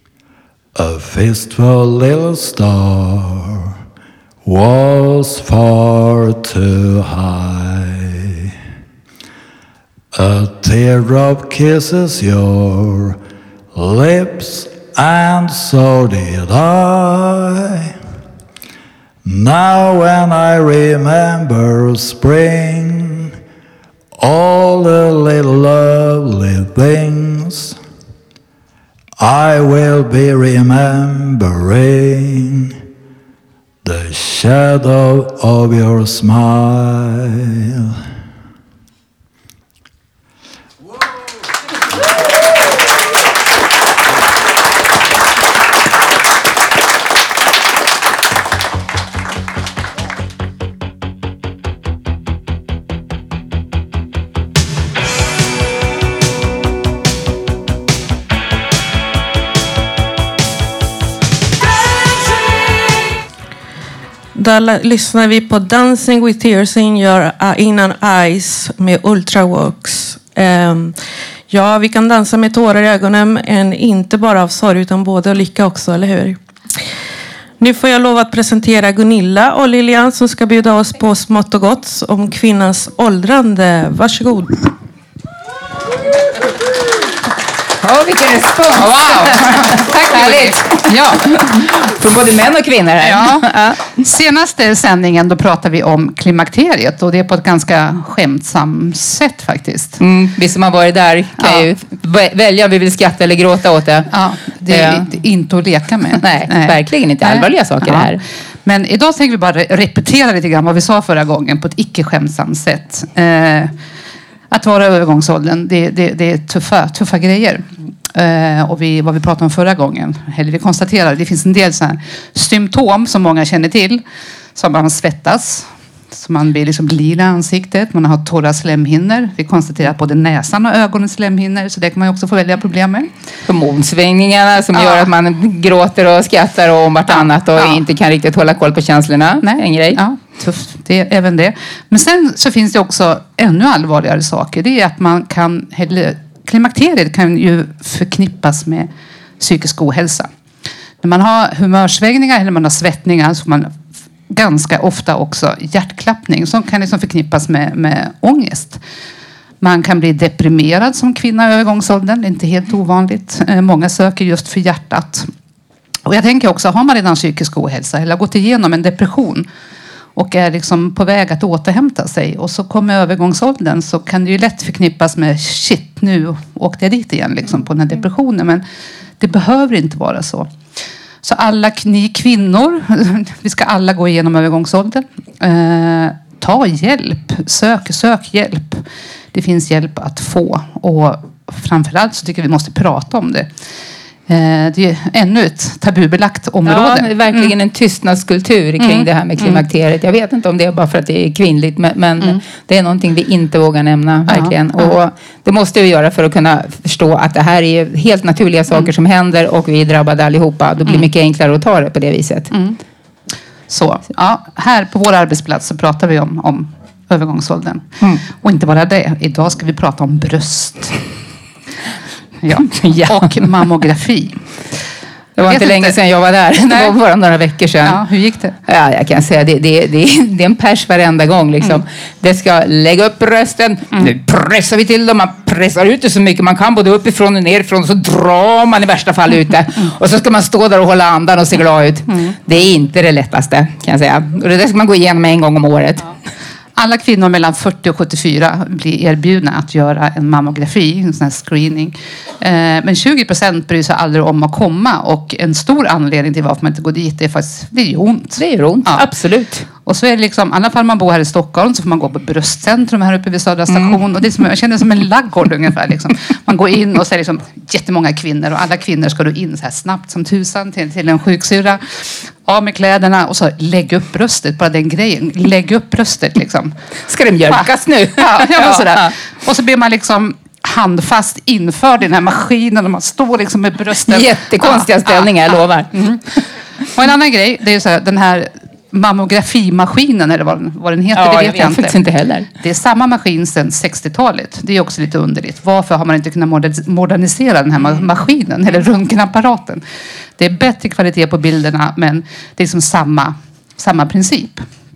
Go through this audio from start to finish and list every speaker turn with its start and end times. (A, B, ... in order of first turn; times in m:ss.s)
0:00.8-0:03.8 A
0:04.4-0:08.5 A
0:10.1-0:13.2 A
0:13.8-0:18.0 A
0:19.2-0:23.4 A
0:24.2-0:27.8 A
0:29.2-0:32.8 A
0:33.8-0:38.0 A
1:04.4-1:11.0 B
1:11.5-1:16.4 B
1:17.6-1:24.6 B
1:27.8-1:33.8 C
1:29.0-1:31.4 D
1:33.0-1:40.0 D
1:40.0-1:44.1 C
1:41.4-1:41.7 D
1:44.1-1:53.7 D
1:44.7-1:45.1 C
1:46.1-1:48.2 C
1:54.5-2:04.0 D
2:04.6-2:13.1 D
2:13.5-2:20.0 C
2:14.7-2:15.1 D
2:17.1-2:17.8 D
2:19.4-2:30.3 D
2:31.0-2:33.7 D
2:34.3-2:38.8 D
2:39.6-2:45.3 D
2:46.1-2:49.5 D
2:50.2-2:58.6 D
2:59.2-3:00.5 D
3:01.2-3:13.5 D
3:14.3-3:17.6 D
3:16.6-3:32.5 C
3:18.8-3:19.7 D
3:24.3-3:25.0 D
3:30.8-3:31.1 D
3:32.5-3:32.8 D
3:33.7-3:41.0 D
3:42.4-3:44.8 D
3:42.8-3:43.5 C
3:45.4-3:48.0 C
3:45.4-3:47.0 D
3:47.8-3:48.6 D
3:48.7-4:06.0 C
4:06.8-4:19.1 D
4:18.4-4:19.7 C
4:19.8-4:36.8 D
4:23.7-4:24.0 C
4:37.1-4:39.1 C
4:37.5-4:46.4 D
4:44.1-4:45.9 C
4:46.9-4:59.8 D
4:51.2-4:52.5 C
5:00.4-5:04.7 D